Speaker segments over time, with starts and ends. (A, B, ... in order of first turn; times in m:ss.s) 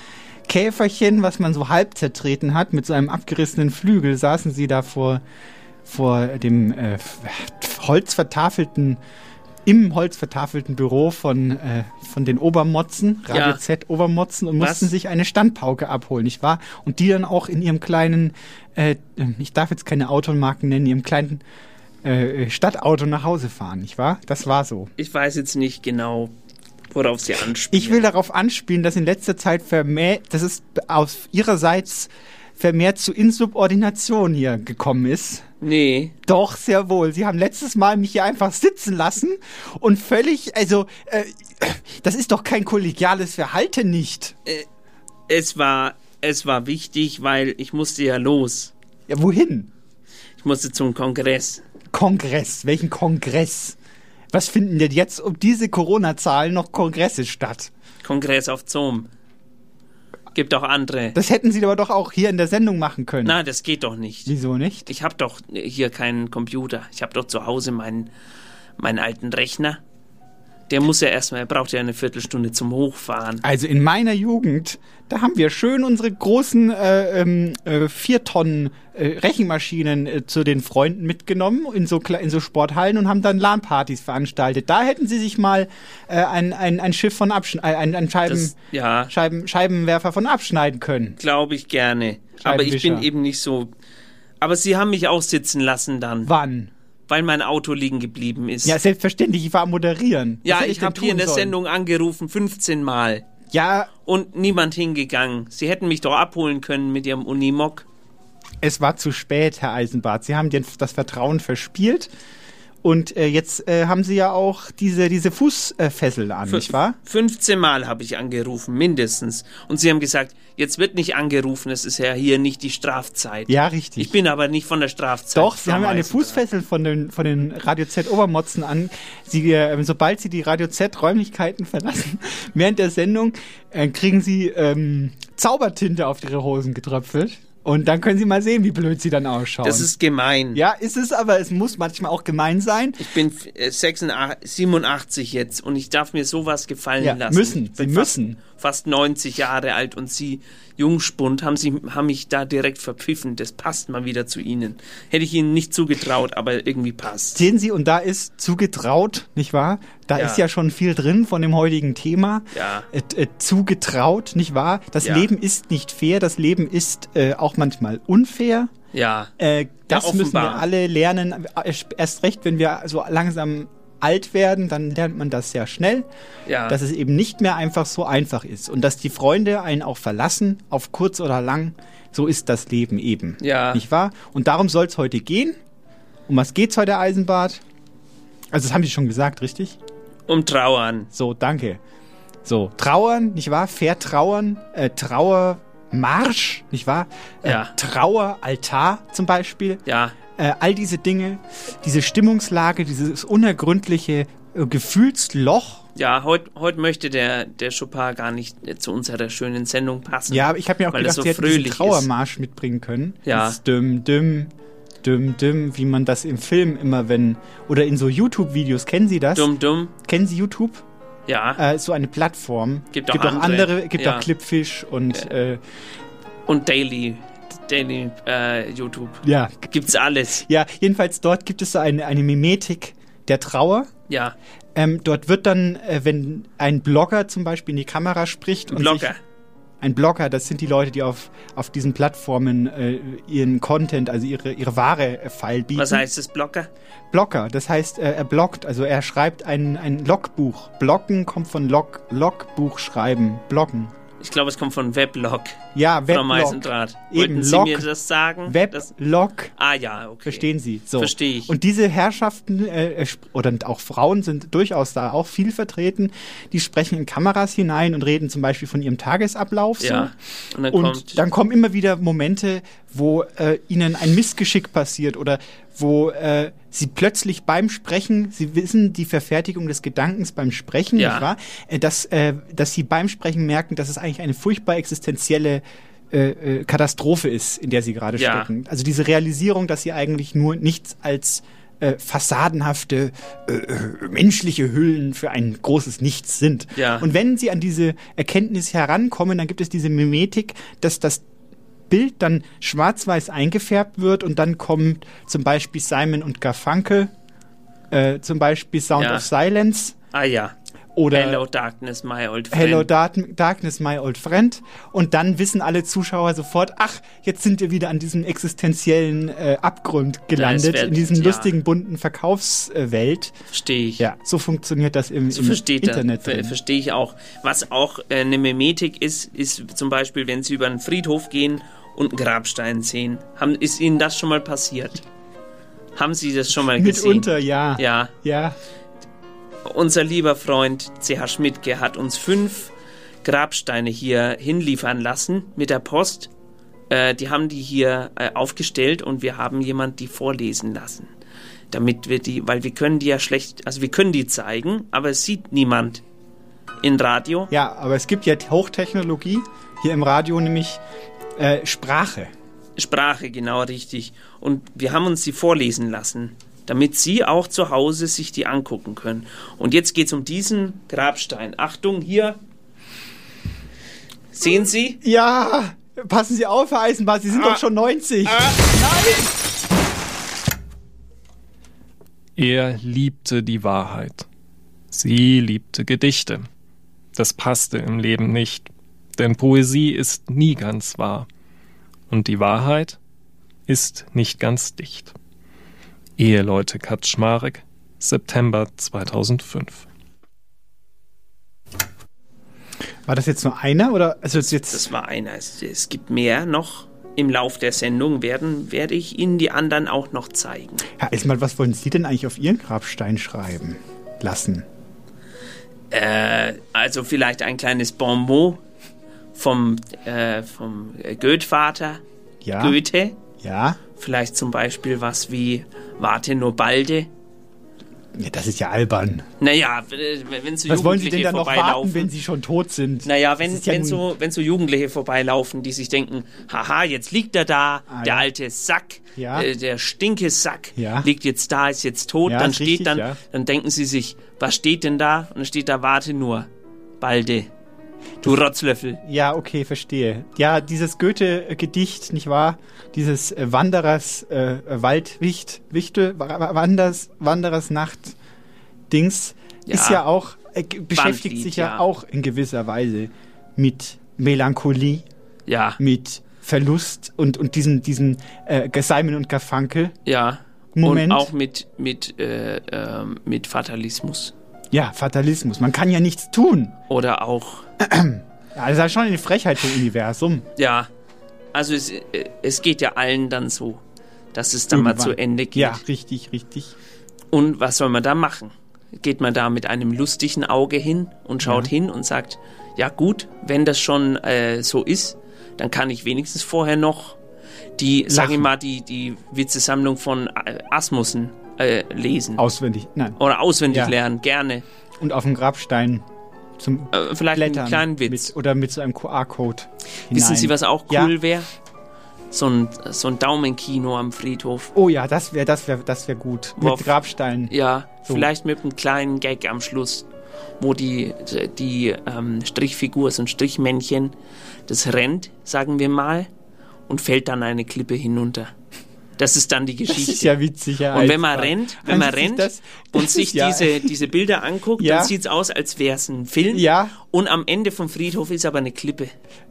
0:00.4-0:05.2 A
0:05.8-0:09.0 A
0:09.6-0:21.4 A
0:13.3-0:13.6 B
0:14.6-0:14.9 B
0:22.0-0:24.9 A
0:25.0-0:26.3 B
0:26.9-0:28.1 B
0:27.7-0:35.4 A
0:35.6-0:36.1 B
0:36.2-0:44.3 A
0:45.3-0:48.7 B
0:49.1-0:49.7 A
0:50.4-0:51.6 B
0:51.9-0:53.8 A
0:54.3-0:57.7 A
0:58.0-0:59.1 B
1:00.3-1:01.2 B
1:01.1-1:03.4 A
1:03.2-1:04.3 B
1:04.2-1:04.9 A
1:04.8-1:08.1 B
1:08.8-1:09.8 B
1:10.7-1:13.4 B
1:13.4-1:28.5 A
1:28.3-1:29.1 B
1:29.1-1:31.2 A
1:31.2-1:33.7 B
1:32.4-1:33.1 A
1:34.4-1:36.3 B
1:36.2-1:36.7 A
1:37.1-1:38.8 B
1:38.6-1:41.6 A
1:40.4-1:43.2 B
1:43.5-1:43.9 A
1:44.1-1:47.8 B
1:48.6-1:52.1 A
1:52.8-1:57.0 A
1:56.5-2:06.4 B
2:03.5-2:04.1 A
2:05.3-2:19.9 A
2:19.6-2:20.6 B
2:20.5-2:23.0 A
2:23.0-2:37.4 B
2:27.0-2:28.4 A
2:37.3-2:48.7 A
2:40.2-2:40.4 B
2:42.5-2:42.9 B
2:45.0-2:45.3 B
2:48.9-2:49.3 B
2:49.4-2:56.1 A
2:49.9-2:50.7 B
2:56.5-2:56.8 B
2:56.7-3:05.6 A
3:03.4-3:03.8 B
3:06.3-3:07.6 A
3:08.5-3:09.8 A
3:10.3-3:11.1 B
3:11.1-3:11.8 A
3:12.4-3:19.8 A
3:17.4-3:17.7 B
3:19.8-3:20.2 B
3:20.3-3:25.8 A
3:25.9-3:32.1 B
3:30.3-3:40.8 A
3:33.2-3:33.6 B
3:39.3-3:39.9 B
3:41.3-3:41.6 B
3:41.6-3:45.6 A
3:42.9-3:44.3 B
3:46.5-3:50.4 B
3:49.2-3:53.9 A
3:54.1-3:54.3 B
3:54.7-3:59.1 A
3:58.7-3:59.2 B
3:59.8-4:06.1 A
4:05.7-4:06.7 B
4:07.1-4:13.9 A
4:14.2-4:18.9 B
4:15.7-4:17.9 A
4:18.4-4:19.5 A
4:19.6-4:21.5 B
4:20.2-4:30.1 A
4:29.8-4:31.2 B
4:30.7-5:01.2 A
4:41.0-4:41.3 B
4:48.2-4:48.5 B
4:56.8-4:57.1 B
5:01.9-5:07.1 A
5:07.9-5:10.0 A
5:08.9-5:09.3 B
5:10.1-5:10.6 B
5:10.9-5:11.4 A
5:11.1-5:12.9 B
5:12.5-5:23.3 A
5:20.3-5:21.5 B
5:23.5-5:24.1 B
5:24.0-5:26.6 A
5:25.3-5:35.0 B
5:36.0-5:38.1 B
5:36.6-5:38.6 A
5:39.6-5:42.7 B
5:43.2-5:46.3 B
5:46.9-5:51.1 B
5:51.7-5:56.0 B
5:56.8-5:57.5 B
5:57.5-6:00.8 A
6:01.4-6:02.3 A
6:02.8-6:12.4 B
6:14.3-6:15.0 B
6:15.0-6:19.2 A
6:17.3-6:17.6 B
6:18.2-6:18.7 B
6:22.4-6:24.2 C
6:24.9-6:26.5 C
6:27.2-6:31.3 C
6:32.1-6:33.0 C
6:33.7-6:35.2 C
6:36.2-6:39.8 C
6:43.1-6:44.9 A
6:44.5-6:50.8 B
6:51.0-6:54.7 A
6:55.9-6:58.6 B
6:59.3-7:02.0 B
7:02.4-7:02.8 A
7:02.6-7:03.2 B
7:03.4-7:03.8 A
7:04.0-7:07.1 B
7:08.1-7:09.2 A
7:09.4-7:12.1 B
7:10.7-7:14.0 A
7:13.0-7:26.5 B
7:17.9-7:18.3 A
7:19.2-7:19.5 A
7:20.7-7:21.1 A
7:22.2-7:23.2 A
7:27.0-7:27.5 B
7:28.2-7:29.0 B
7:29.0-7:38.2 A
7:38.9-7:45.0 A
7:39.7-7:40.0 B
7:41.0-7:41.8 B
7:45.5-7:45.8 B
7:45.8-7:49.9 A
7:50.0-7:54.3 B
7:50.7-7:51.3 A
7:54.7-7:56.8 A
7:56.9-7:57.7 B
7:57.8-8:00.5 A
8:00.6-8:00.9 B
8:01.5-8:03.8 B
8:04.3-8:05.8 B
8:04.7-8:06.7 A
8:07.3-8:17.2 B
8:11.4-8:11.7 A
8:17.8-8:22.4 B
8:18.1-8:18.5 A
8:22.4-8:23.2 A
8:23.2-8:24.6 B
8:23.7-8:23.9 A
8:25.0-8:26.0 A
8:26.6-8:31.1 A
8:26.9-8:28.3 B
8:30.1-8:31.5 B
8:32.3-8:34.7 B
8:34.7-8:37.5 A
8:36.6-8:36.9 B
8:37.5-8:40.1 B
8:40.6-8:44.1 B
8:44.7-8:46.3 B
8:46.9-8:48.5 B
8:49.2-8:50.4 B
8:49.9-8:53.9 A
8:50.9-8:59.1 B
8:54.8-8:55.1 A
8:56.5-8:56.9 A